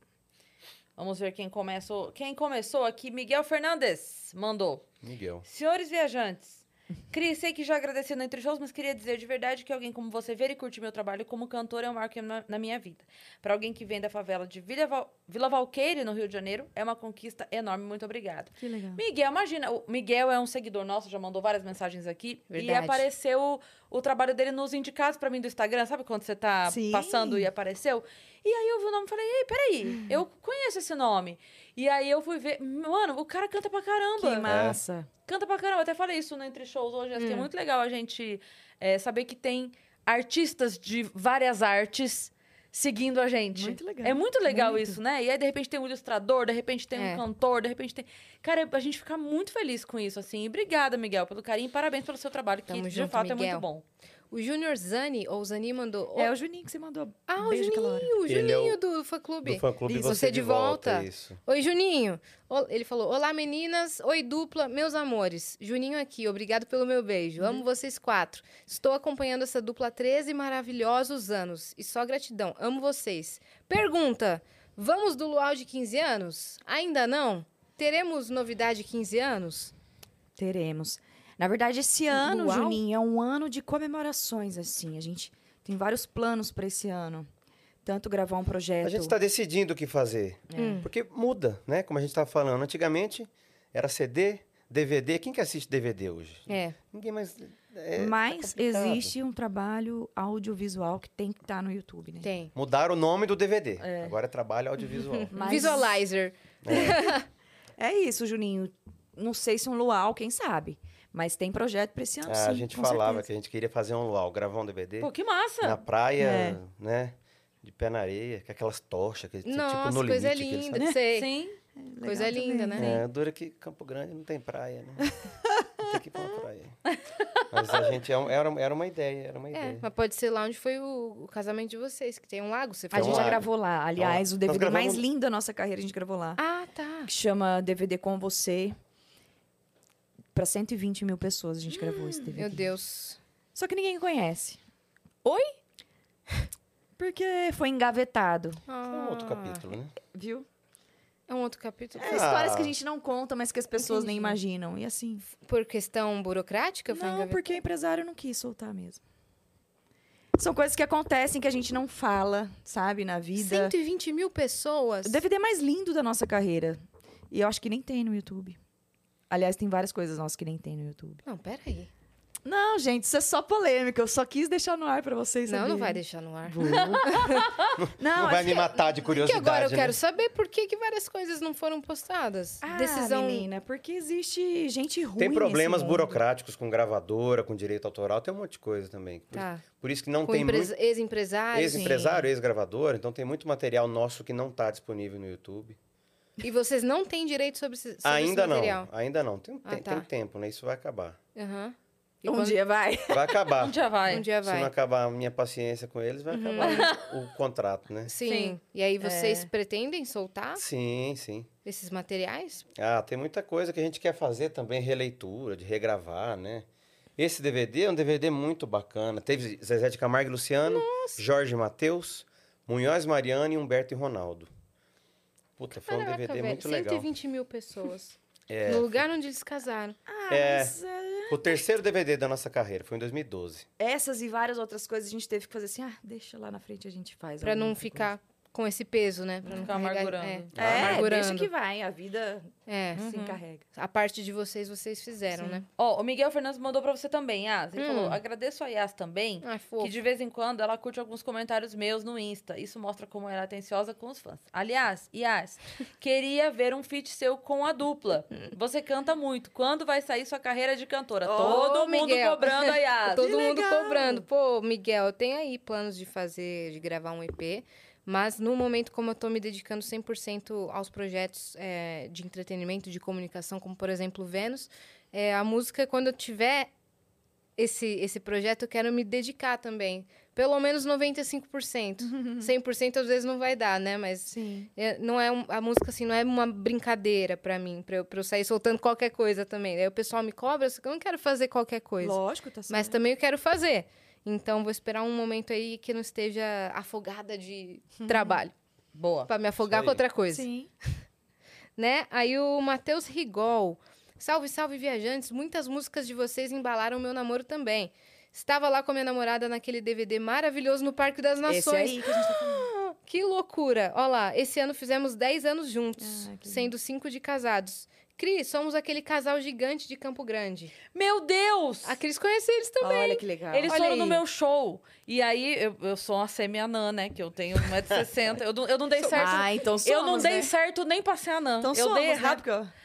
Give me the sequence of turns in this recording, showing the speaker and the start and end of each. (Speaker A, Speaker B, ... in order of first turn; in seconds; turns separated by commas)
Speaker A: 1.0-4.9, Speaker B: 5.0-5.5, Speaker A: 5.5-34.5, Speaker C: 18.6-19.0, Speaker D: 22.5-23.1, Speaker C: 26.7-27.5, Speaker C: 34.2-35.1, Speaker B: 34.5-34.8, Speaker A: 35.3-53.8, Speaker D: 37.2-37.5, Speaker C: 43.5-45.0, Speaker D: 47.0-47.2, Speaker D: 52.7-53.6, Speaker D: 54.3-56.3, Speaker C: 56.2-58.1, Speaker D: 57.3-79.7, Speaker B: 58.3-58.8, Speaker B: 59.4-61.4, Speaker C: 59.9-60.2, Speaker C: 80.4-87.3, Speaker D: 82.1-82.8, Speaker C: 87.8-89.2, Speaker B: 88.8-99.1, Speaker C: 90.5-90.8, Speaker D: 90.6-90.9, Speaker D: 96.5-96.8, Speaker C: 98.0-102.3, Speaker D: 102.2-102.5, Speaker B: 102.5-105.8, Speaker C: 103.8-104.2, Speaker D: 105.1-107.2, Speaker C: 105.3-106.0, Speaker B: 106.6-107.1, Speaker C: 107.8-113.3, Speaker B: 112.2-120.9, Speaker A: 115.0-115.8, Speaker C: 116.2-116.6, Speaker D: 119.5-121.3, Speaker A: 121.1-121.6, Speaker C: 121.8-123.0, Speaker D: 122.0-123.0, Speaker B: 122.8-125.1, Speaker B: 125.8-126.8, Speaker A: 126.9-127.4, Speaker B: 127.5-129.8, Speaker D: 129.5-133.4, Speaker C: 132.9-136.4, Speaker B: 132.9-135.1, Speaker D: 136.4-137.1, Speaker C: 137.1-138.8, Speaker C: 140.3-142.7, Speaker D: 142.3-143.2, Speaker C: 143.6-144.6, Speaker D: 145.2-145.5, Speaker C: 147.0-148.6, Speaker D: 148.7-149.7, Speaker B: 148.9-149.9, Speaker C: 150.1-150.5, Speaker D: 151.3-152.4, Speaker C: 152.0-155.3, Speaker B: 152.1-152.8, Speaker D: 153.8-154.4, Speaker D: 155.4-157.5, Speaker C: 156.9-159.0, Speaker C: 160.4-163.7, Speaker D: 163.4-165.2, Speaker C: 165.0-166.8, Speaker C: 167.3-168.6, Speaker C: 169.3-171.2, Speaker D: 171.2-171.9, Speaker C: 172.4-178.7, Speaker D: 175.5-177.5, Speaker A: 176.6-177.7, Speaker B: 177.8-180.0, Speaker D: 179.0-183.5, Speaker C: 182.6-186.2, Speaker B: 185.2-190.7, Speaker D: 189.3-189.6, Speaker D: 190.2-192.2, Speaker B: 191.5-195.8, Speaker C: 191.6-192.2, Speaker D: 196.4-198.9, Speaker B: 198.0-201.2, Speaker D: 199.7-200.1, Speaker D: 201.3-202.6, Speaker C: 202.2-203.5, Speaker B: 203.1-203.8, Speaker A: 203.6-204.2, Speaker D: 204.1-204.7, Speaker B: 204.4-208.1, Speaker D: 206.3-206.9, Speaker A: 206.6-207.1, Speaker D: 208.1-210.6, Speaker A: 208.3-209.5, Speaker B: 210.6-211.5, Speaker D: 211.7-212.7, Speaker B: 212.8-224.5, Speaker D: 220.7-221.2, Speaker B: 225.6-227.1, Speaker D: 225.8-230.0, Speaker B: 228.5-229.0, Speaker C: 230.1-231.6, Speaker B: 230.3-230.8, Speaker B: 231.3-233.7, Speaker C: 233.8-238.1, Speaker D: 237.4-241.5, Speaker A: 239.5-240.8, Speaker B: 240.6-241.1, Speaker C: 240.6-243.7, Speaker D: 242.7-243.0, Speaker A: 243.0-243.4, Speaker D: 243.8-245.7, Speaker A: 245.8-263.4, Speaker D: 247.8-248.2, Speaker D: 249.4-249.9, Speaker C: 261.2-261.6, Speaker D: 261.4-276.7, Speaker C: 263.2-264.2, Speaker D: 277.6-298.5, Speaker C: 282.1-282.5, Speaker C: 284.3-284.7, Speaker C: 292.0-293.0, Speaker C: 298.1-298.4, Speaker A: 298.9-299.3, Speaker D: 299.3-300.5, Speaker B: 299.6-300.0, Speaker C: 300.3-300.7, Speaker D: 301.8-320.8, Speaker C: 311.5-312.7, Speaker C: 316.0-316.7, Speaker A: 320.9-322.0, Speaker D: 321.8-324.2, Speaker C: 322.8-323.7, Speaker A: 323.5-332.5, Speaker D: 329.0-329.4, Speaker C: 329.1-330.5, Speaker C: 331.6-332.7